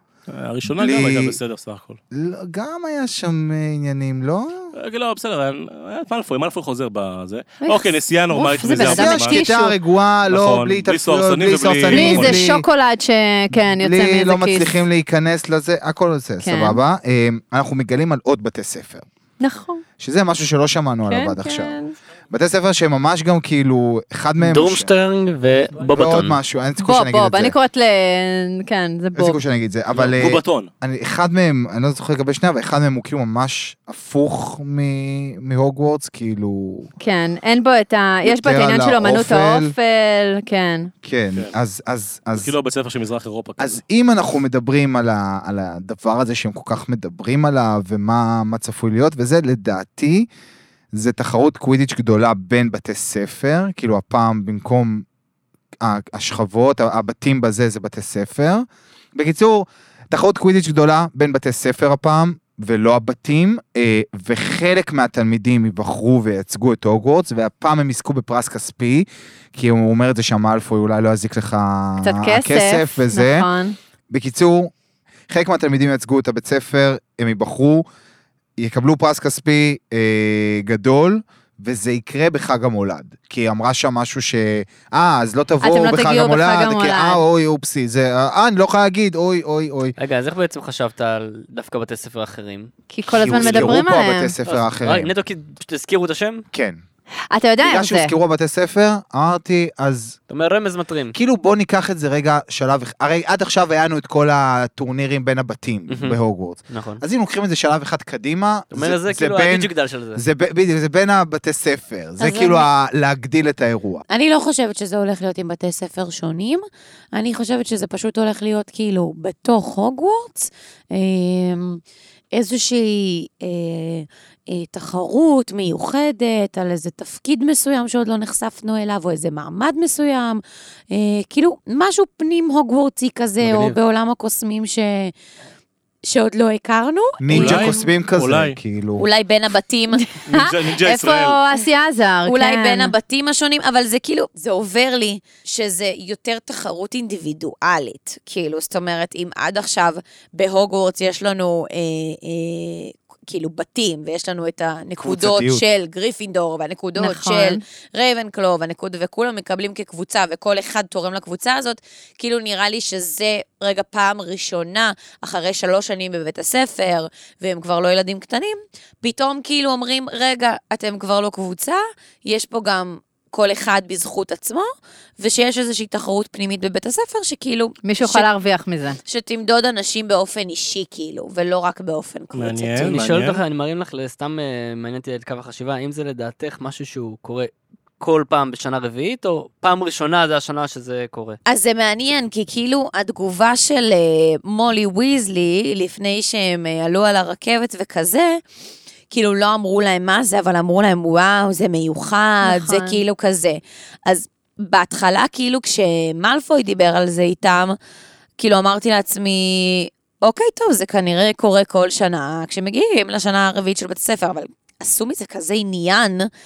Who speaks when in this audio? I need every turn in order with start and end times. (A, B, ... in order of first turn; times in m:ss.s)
0:00.3-0:02.0 A
0:00.6-0:01.4 B
0:02.1-0:04.7 B
0:04.7-0:09.4 A
0:07.6-0:09.8 C
0:08.8-0:12.6 B
0:10.3-0:12.5 A
0:11.9-0:14.7 C
0:13.5-0:19.1 B
0:16.4-0:16.8 C
0:19.4-0:19.8 C
0:20.0-0:21.8 B
0:21.1-0:21.9 C
0:22.3-0:24.9 B
0:24.4-0:26.4 D
0:25.9-0:27.6 B
0:26.8-0:29.4 C
0:29.2-0:36.9 B
0:30.0-0:30.7 A
0:37.0-0:40.9 C
0:38.2-0:39.7 B
0:41.0-0:42.5 B
0:42.4-0:43.8 A
0:43.6-0:50.3 B
0:50.9-0:55.0 B
0:55.8-1:13.5 B
1:12.0-1:13.8 C
1:14.1-1:14.7 B
1:15.3-1:17.9 B
1:18.6-1:29.9 B
1:25.6-1:27.2 C
1:30.0-1:32.7 D
1:32.9-1:34.4 C
1:33.1-1:35.1 B
1:33.3-1:33.7 D
1:34.5-1:36.4 D
1:36.5-1:36.8 B
1:37.3-1:38.1 C
1:37.6-1:40.2 B
1:40.3-1:41.2 D
1:41.1-1:54.0 B
1:45.9-1:46.2 D
1:46.7-1:47.0 D
1:48.7-1:50.2 D
1:52.2-1:52.7 E
1:54.1-1:56.6 E
1:57.1-2:01.8 E
2:02.3-2:15.1 E
2:13.4-2:13.8 D
2:16.0-2:17.9 E
2:17.2-2:19.1 B
2:17.3-2:18.6 A
2:19.0-2:20.1 E
2:20.1-2:22.9 C
2:20.3-2:21.4 A
2:22.2-2:54.7 E
2:35.0-2:35.6 B
2:37.0-2:37.6 C
2:55.2-2:58.3 E
2:57.8-2:59.0 C
2:59.0-3:02.9 E
3:02.3-3:03.4 A
3:02.8-3:11.4 D
3:11.5-3:18.4 E
3:19.1-3:27.8 E
3:22.4-3:23.0 C
3:28.4-3:36.3 E